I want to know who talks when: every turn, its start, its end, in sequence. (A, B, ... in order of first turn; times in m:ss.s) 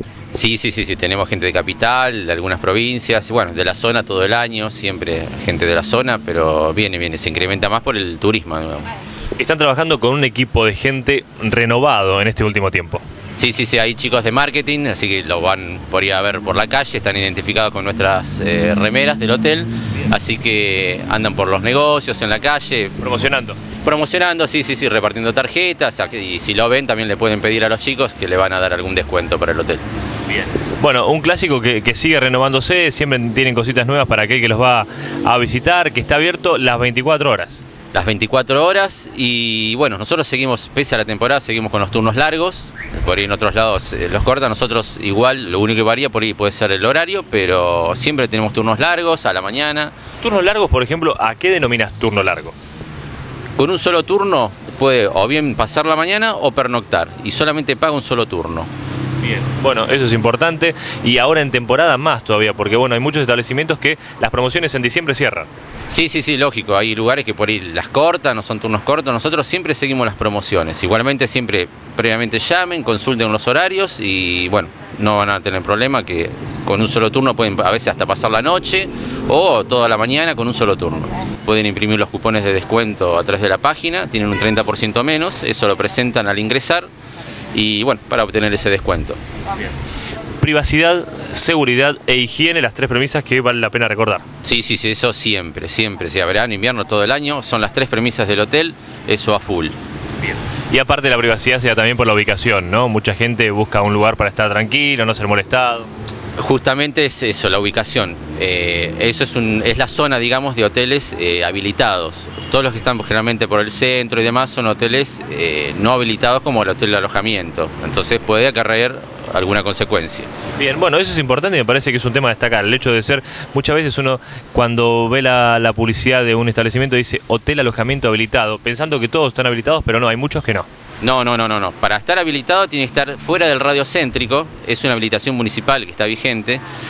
0:00.3-0:08.9 A
0:09.4-0:13.0 B
0:13.4-0:23.0 A
0:23.0-0:23.6 B
0:23.7-0:29.8 A
0:30.3-0:37.6 B
0:37.9-0:50.0 A
0:50.2-0:52.5 B
0:53.6-0:58.7 A
0:59.3-1:05.5 B
1:05.9-1:26.9 A
1:27.5-1:29.2 A
1:30.4-1:34.2 B
1:34.4-1:39.8 A
1:40.3-1:45.9 B
1:46.4-2:00.3 A
2:00.6-2:10.7 B
2:11.0-2:16.6 A